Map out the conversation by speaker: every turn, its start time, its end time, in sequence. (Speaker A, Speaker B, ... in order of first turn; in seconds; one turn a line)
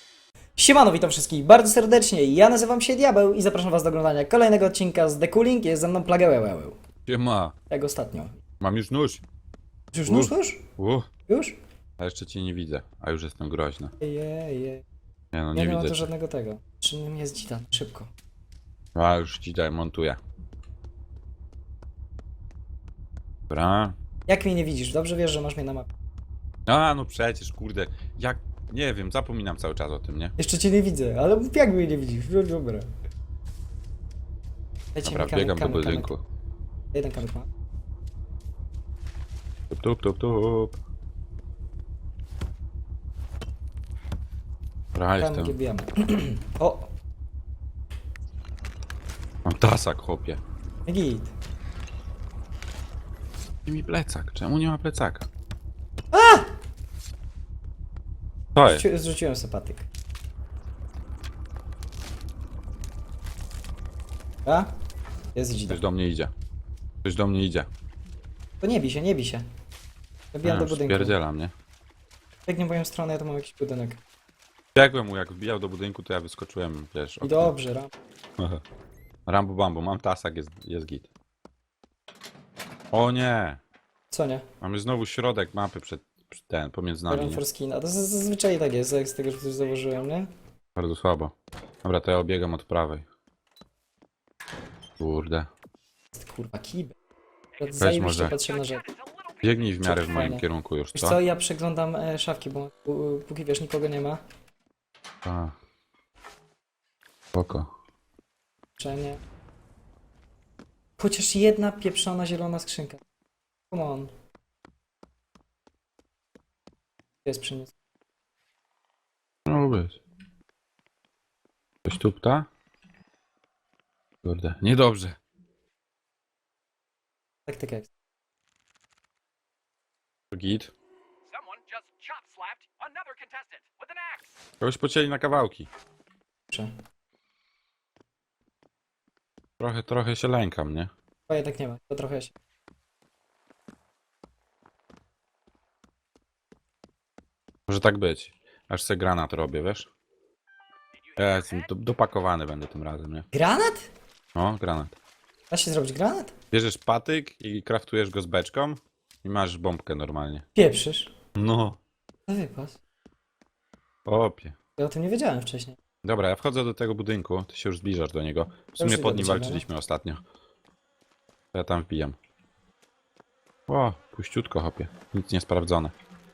Speaker A: 0.6-6.8
Speaker B: 7.0-7.5
Speaker A: 7.7-8.4
Speaker B: 8.6-9.2
Speaker A: 9.9-10.6
Speaker B: 10.1-11.1
Speaker A: 11.3-11.6
Speaker B: 12.0-13.9
Speaker A: 14.0-14.8
Speaker B: 15.3-16.1
Speaker A: 15.5-18.1
Speaker B: 18.9-20.2
Speaker B: 23.5-24.0
Speaker A: 24.3-25.9
Speaker B: 26.6-30.3
Speaker A: 30.4-32.9
Speaker A: 34.9-36.1
Speaker B: 35.0-36.2
Speaker A: 36.9-37.5
Speaker B: 39.7-40.8
Speaker B: 44.9-45.6
Speaker A: 45.2-46.9
Speaker B: 49.4-50.4
Speaker A: 50.9-51.3
Speaker B: 53.6-55.3
Speaker A: 56.1-56.5
Speaker B: 58.5-58.8
Speaker A: 58.6-59.9
Speaker A: 65.3-65.8
Speaker B: 65.7-66.3
Speaker B: 67.0-67.7
Speaker A: 68.6-69.5
Speaker A: 70.3-71.2
Speaker B: 70.4-71.5
Speaker A: 72.5-74.0
Speaker B: 74.7-77.5
Speaker A: 77.2-77.9
Speaker B: 79.2-81.1
Speaker B: 82.9-83.6
Speaker A: 84.1-84.5
Speaker B: 84.6-87.4
Speaker A: 87.1-90.3
Speaker B: 90.8-93.0
Speaker B: 95.0-95.5
Speaker A: 96.1-96.9
Speaker A: 97.6-98.8
Speaker C: 97.8-99.7
Speaker B: 97.8-98.3
Speaker B: 99.4-101.2
Speaker A: 99.8-100.4
Speaker A: 100.9-104.2
Speaker B: 105.2-105.5
Speaker B: 107.3-107.7
Speaker A: 108.8-109.2
Speaker A: 111.0-113.0
Speaker A: 113.7-114.1
Speaker A: 117.2-117.7
Speaker B: 119.5-120.0
Speaker B: 121.8-122.5
Speaker B: 124.2-125.2
Speaker A: 127.5-127.9
Speaker B: 130.3-130.7
Speaker C: 131.3-134.3
Speaker B: 134.6-135.7
Speaker B: 139.6-140.9
Speaker A: 141.3-142.3
Speaker B: 147.7-149.9
Speaker C: 151.1-151.7
Speaker B: 151.2-153.3
Speaker A: 153.3-153.9
Speaker B: 154.3-154.9
Speaker A: 155.5-156.3
Speaker B: 156.5-160.5
Speaker A: 160.5-161.1
Speaker B: 161.3-161.8
Speaker A: 162.3-162.8
Speaker B: 164.1-164.6
Speaker A: 164.8-165.8
Speaker B: 166.0-170.2
Speaker A: 168.8-169.6
Speaker B: 171.5-172.2
Speaker B: 173.7-175.9